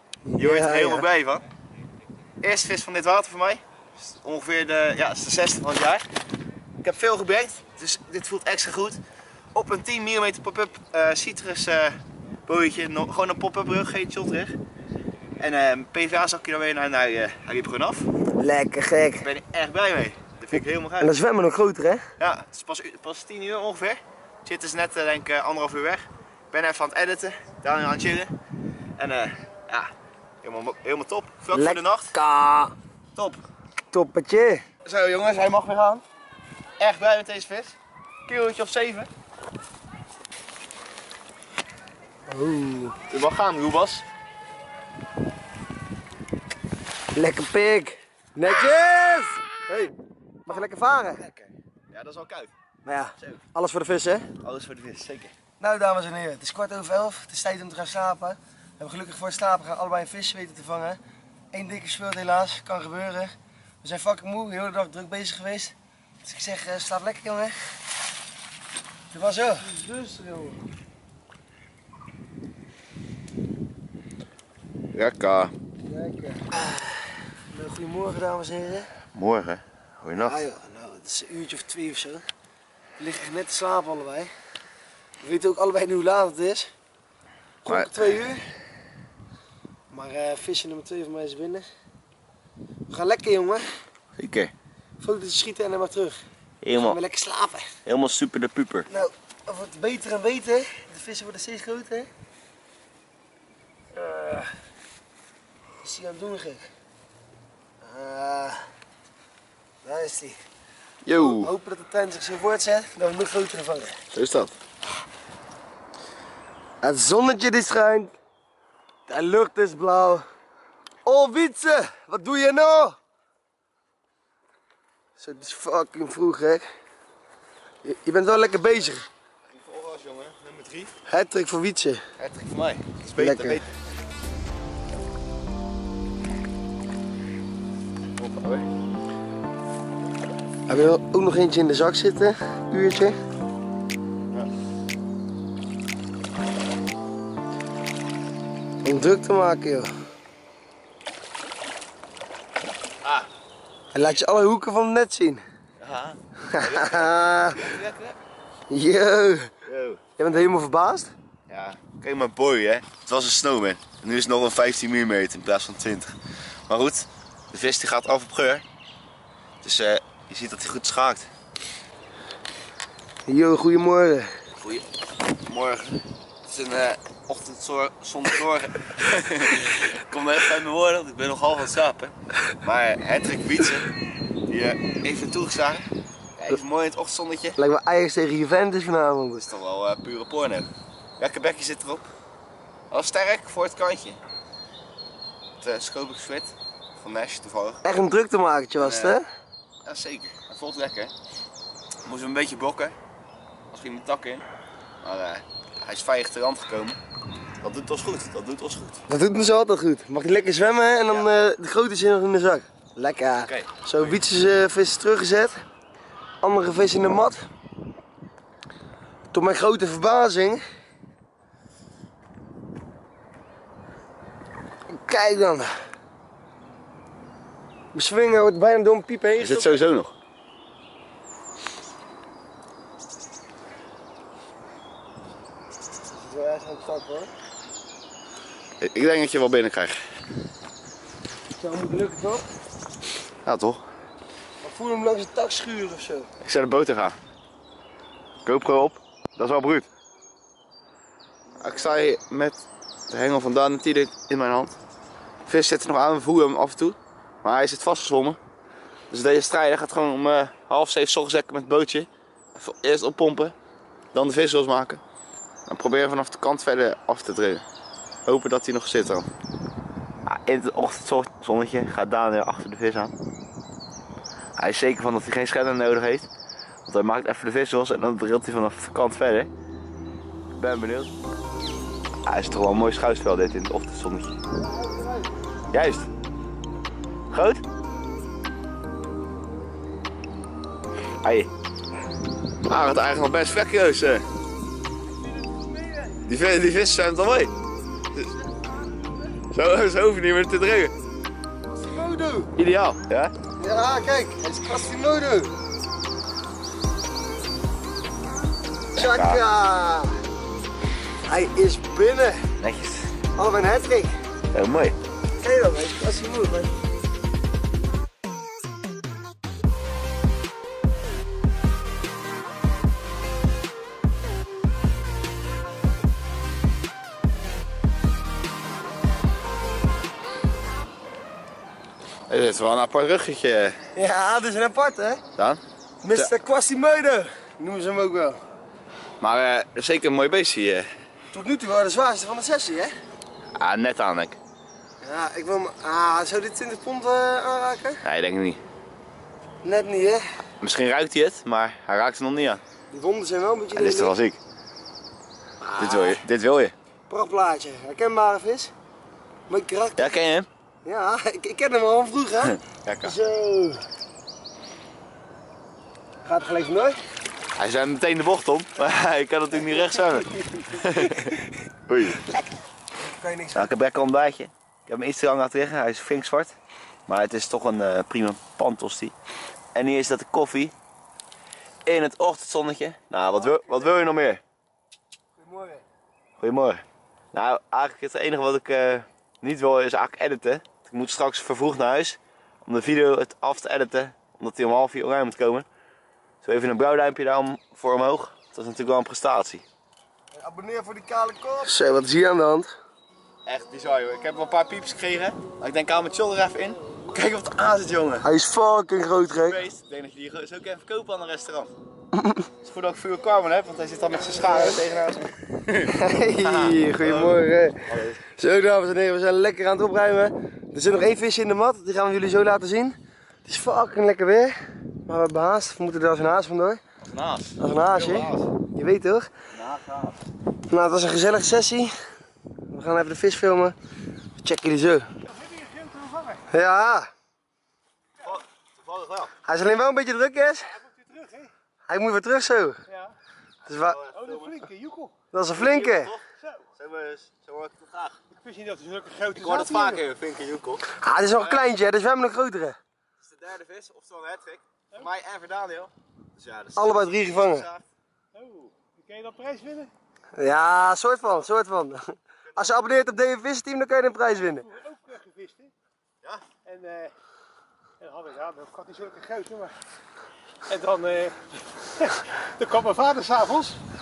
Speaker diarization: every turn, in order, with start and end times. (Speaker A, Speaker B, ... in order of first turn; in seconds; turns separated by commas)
Speaker A: 0.3-1.1, Speaker B: 0.4-1.4, Speaker B: 2.4-6.0, Speaker B: 6.8-9.0, Speaker B: 9.5-14.6, Speaker B: 15.4-18.1, Speaker A: 18.4-19.3, Speaker B: 19.2-21.2, Speaker A: 21.0-22.1, Speaker B: 22.2-28.3, Speaker B: 29.0-29.9, Speaker B: 30.4-32.1, Speaker A: 31.5-32.7, Speaker B: 33.1-33.4, Speaker A: 33.9-34.6, Speaker B: 34.9-36.0, Speaker B: 36.8-39.1, Speaker A: 42.3-43.0, Speaker B: 43.1-44.0, Speaker A: 47.1-49.9, Speaker A: 50.5-51.3, Speaker B: 51.2-52.5, Speaker A: 52.9-54.3, Speaker B: 54.4-55.3, Speaker A: 55.6-61.0, Speaker A: 61.5-67.7, Speaker A: 69.1-70.6, Speaker B: 74.9-75.5, Speaker A: 75.8-76.9, Speaker A: 77.5-78.9, Speaker B: 79.1-80.4, Speaker A: 80.2-82.2, Speaker A: 83.0-84.3, Speaker A: 85.2-86.7, Speaker A: 87.6-88.5, Speaker B: 87.7-87.9, Speaker A: 89.9-91.7, Speaker A: 92.9-93.7, Speaker B: 94.2-94.5, Speaker A: 95.0-96.2, Speaker B: 96.6-97.0, Speaker A: 96.8-97.7, Speaker B: 97.9-98.9, Speaker A: 98.9-102.1, Speaker A: 103.9-104.5, Speaker A: 105.8-106.7, Speaker A: 107.8-108.7, Speaker A: 109.8-110.4, Speaker B: 111.0-111.5, Speaker A: 111.1-114.0, Speaker B: 114.1-114.5, Speaker A: 116.8-118.1, Speaker A: 119.1-120.3, Speaker A: 121.0-123.0, Speaker A: 125.2-126.7, Speaker A: 127.8-129.1, Speaker B: 129.5-130.9, Speaker A: 131.1-132.0, Speaker B: 132.2-133.6, Speaker A: 133.2-133.6, Speaker B: 138.2-138.7, Speaker A: 140.7-143.2, Speaker A: 148.8-149.9, Speaker A: 153.9-155.4, Speaker B: 155.8-158.2, Speaker A: 156.5-157.6, Speaker A: 158.7-159.5, Speaker B: 159.7-160.0, Speaker A: 160.2-161.1, Speaker B: 161.5-166.2, Speaker B: 166.7-168.6, Speaker B: 169.6-171.3, Speaker A: 173.3-174.3, Speaker B: 174.6-183.9, Speaker B: 184.5-187.6, Speaker A: 187.6-189.5, Speaker B: 189.4-192.1, Speaker B: 192.9-194.2, Speaker B: 195.6-197.8, Speaker A: 197.8-199.3, Speaker B: 198.8-199.2, Speaker B: 199.8-201.1, Speaker B: 202.1-203.0, Speaker B: 203.7-204.4, Speaker B: 205.0-207.0, Speaker B: 207.6-209.0, Speaker A: 209.1-215.6, Speaker B: 213.4-214.1, Speaker A: 216.4-217.5, Speaker A: 219.3-220.6, Speaker A: 224.9-225.7, Speaker A: 227.9-229.8, Speaker B: 229.4-230.2, Speaker A: 236.2-237.3, Speaker B: 238.8-240.0, Speaker A: 241.6-242.4, Speaker B: 243.4-243.8, Speaker A: 244.6-246.3, Speaker B: 246.4-247.2, Speaker B: 248.4-249.9, Speaker B: 251.6-254.8, Speaker B: 255.5-258.4, Speaker B: 259.1-263.6, Speaker B: 264.1-265.0, Speaker B: 265.7-267.6, Speaker B: 268.3-269.3, Speaker B: 270.2-273.1, Speaker B: 274.6-276.3, Speaker B: 276.9-279.5, Speaker B: 280.6-281.1, Speaker B: 282.3-284.4, Speaker A: 284.9-285.1, Speaker B: 285.7-286.1, Speaker B: 287.3-287.6, Speaker B: 291.2-291.5, Speaker B: 292.7-294.3, Speaker B: 296.2-297.5, Speaker B: 299.5-300.9, Speaker A: 301.7-302.5, Speaker B: 302.6-303.3, Speaker A: 303.6-305.6, Speaker B: 308.9-309.4, Speaker A: 308.9-310.2, Speaker A: 311.3-312.5, Speaker B: 312.6-313.1, Speaker A: 313.4-314.1, Speaker B: 314.5-315.0, Speaker A: 315.4-316.7, Speaker B: 332.3-333.8, Speaker A: 333.9-335.2, Speaker A: 336.0-338.4, Speaker B: 339.2-340.9, Speaker A: 341.3-342.9, Speaker B: 343.6-344.4, Speaker A: 345.0-348.0, Speaker B: 348.0-348.6, Speaker A: 349.6-350.2, Speaker B: 350.6-352.6, Speaker A: 352.9-354.2, Speaker B: 353.8-354.4, Speaker A: 355.6-356.2, Speaker B: 355.8-356.7, Speaker A: 357.1-358.7, Speaker A: 359.5-360.2, Speaker B: 360.0-360.5, Speaker A: 360.8-363.8, Speaker B: 362.4-363.1, Speaker A: 366.2-367.0, Speaker B: 367.6-371.4, Speaker A: 370.6-371.4, Speaker B: 371.9-372.2, Speaker A: 373.0-373.7, Speaker B: 373.6-376.6, Speaker B: 377.1-379.1, Speaker B: 379.8-380.7, Speaker B: 381.9-384.4, Speaker A: 383.3-383.9, Speaker A: 385.4-385.8, Speaker B: 386.4-395.7, Speaker B: 396.4-399.6, Speaker A: 400.3-402.7, Speaker B: 403.5-408.3, Speaker A: 408.2-409.6, Speaker B: 409.4-411.7, Speaker A: 412.1-412.5, Speaker B: 412.6-418.2, Speaker A: 414.4-414.8, Speaker A: 415.9-426.8, Speaker B: 427.0-428.5, Speaker A: 427.6-429.3, Speaker B: 429.5-430.2, Speaker A: 430.7-431.9, Speaker A: 432.7-433.8, Speaker A: 434.4-435.1, Speaker C: 435.2-436.4, Speaker A: 436.5-437.1, Speaker B: 438.2-439.3, Speaker A: 439.4-440.7, Speaker C: 440.8-441.5, Speaker A: 441.9-442.8, Speaker C: 442.9-443.2, Speaker B: 443.6-444.6, Speaker A: 443.7-444.0, Speaker C: 444.1-445.1, Speaker A: 445.3-446.1, Speaker B: 445.5-446.2, Speaker C: 446.4-446.7, Speaker B: 446.8-448.2, Speaker C: 448.3-450.0, Speaker B: 449.4-450.9, Speaker A: 450.9-452.8, Speaker B: 451.4-451.6, Speaker B: 453.2-457.9, Speaker A: 456.8-457.7, Speaker C: 458.3-459.9, Speaker A: 460.4-464.7, Speaker C: 464.3-465.7, Speaker C: 466.6-467.1, Speaker C: 468.0-469.7, Speaker C: 470.7-473.8